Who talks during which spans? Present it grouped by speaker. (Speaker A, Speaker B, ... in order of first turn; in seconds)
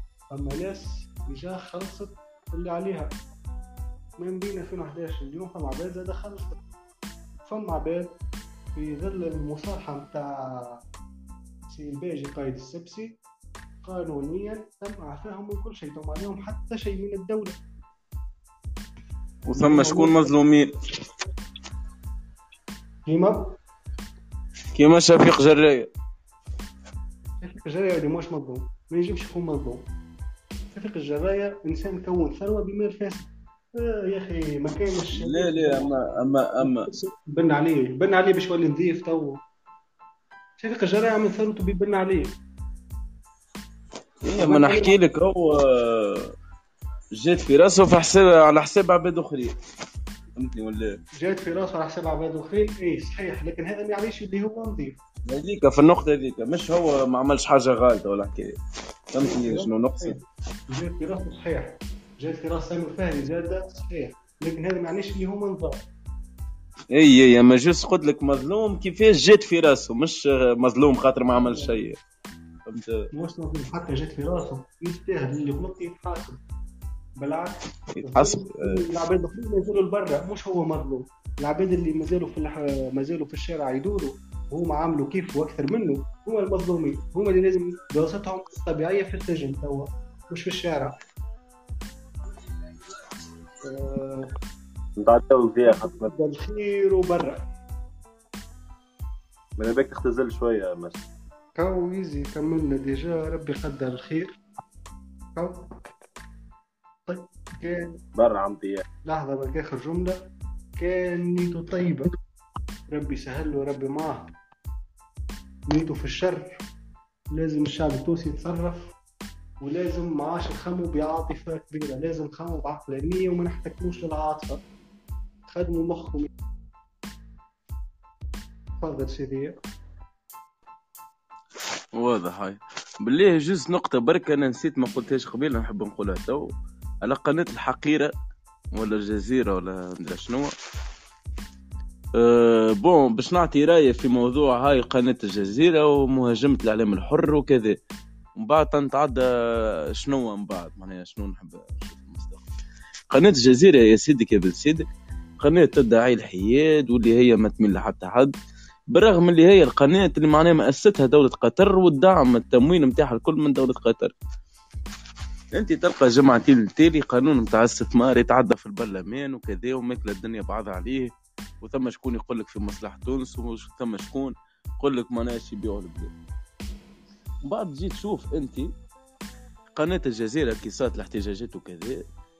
Speaker A: 0.3-3.1, 4.2-6.6, 7.4-8.1, 8.7-10.8, 11.7-13.2, 13.8-17.6, 19.5-20.3, 23.1-23.5, 27.4-29.8, 30.7-39.4, 40.6-42.3, 44.4-44.9, 51.2-55.0, 59.2-60.2, 60.7-65.8, 71.3-71.8, 73.1-76.4, 77.2-91.0, 93.6-94.3, 95.6-97.4, 101.6-104.3, 105.3-105.7, 107.1-108.0, 109.0-110.2, 110.8-112.1, 112.9-114.3, 115.7-116.6, 117.3-118.9, 119.6-124.6, 125.5-126.3, 128.8-129.6
Speaker B: 19.5-20.7, 24.7-25.9, 35.1-36.9, 44.2-46.3, 47.1-49.5, 50.4-51.0, 55.3-58.5, 59.1-60.2, 66.9-72.0, 72.7-73.1, 78.0-78.8, 131.9-136.5, 137.0-138.1, 138.7-140.5, 142.2-147.8, 148.3-152.4, 153.1-154.9, 155.4-158.3, 158.9-164.1, 165.5-176.1, 177.4-178.7, 179.8-182.0
Speaker C: 95.0-96.1, 99.6-101.0, 108.1-108.8